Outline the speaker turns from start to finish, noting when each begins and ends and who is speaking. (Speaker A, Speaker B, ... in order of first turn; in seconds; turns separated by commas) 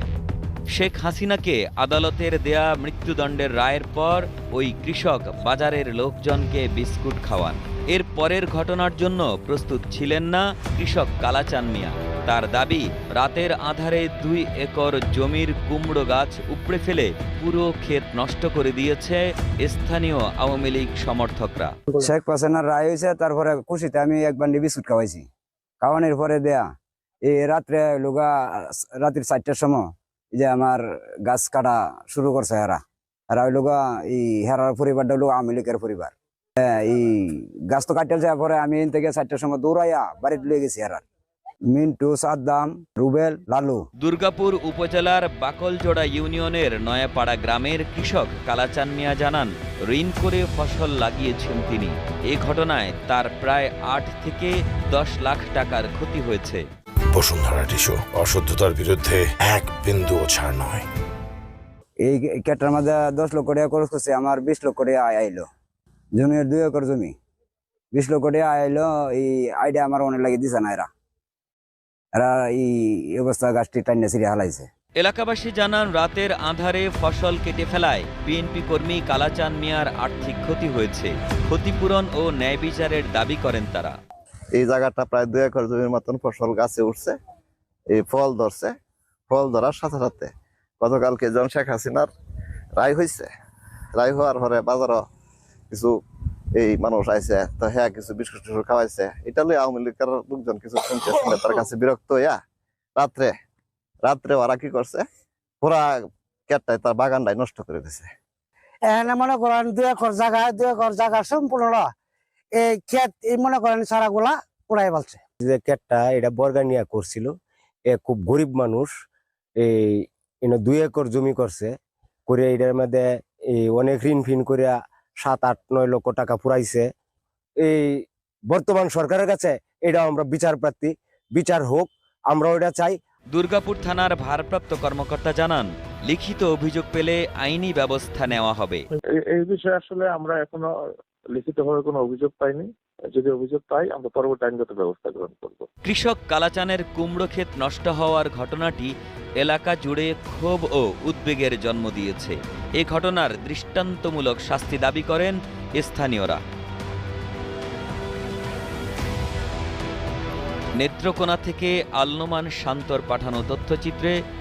Speaker A: 0.7-21.8, Speaker B: 22.0-25.3, Speaker B: 25.8-26.7, Speaker B: 27.2-36.1, Speaker B: 36.7-41.0, Speaker B: 41.7-43.9, Speaker A: 44.0-56.6, Speaker C: 57.1-60.9, Speaker B: 62.0-65.5, Speaker B: 66.2-67.2, Speaker B: 67.9-70.9, Speaker B: 72.2-74.7, Speaker A: 75.0-84.0, Speaker D: 84.6-87.2, Speaker D: 87.9-88.7, Speaker D: 89.3-92.1, Speaker D: 92.8-93.3, Speaker D: 94.0-95.0, Speaker D: 96.6-102.4, Speaker D: 103.0-103.3, Speaker D: 104.0-105.0, Speaker D: 106.5-108.1, Speaker E: 108.9-111.9, Speaker E: 112.5-115.2, Speaker F: 115.4-117.3, Speaker F: 117.9-118.9, Speaker F: 119.6-121.8, Speaker F: 122.3-126.9, Speaker F: 127.6-133.0, Speaker A: 133.3-138.9, Speaker G: 139.1-140.7, Speaker G: 141.3-145.7, Speaker A: 145.8-156.4, Speaker A: 160.8-164.2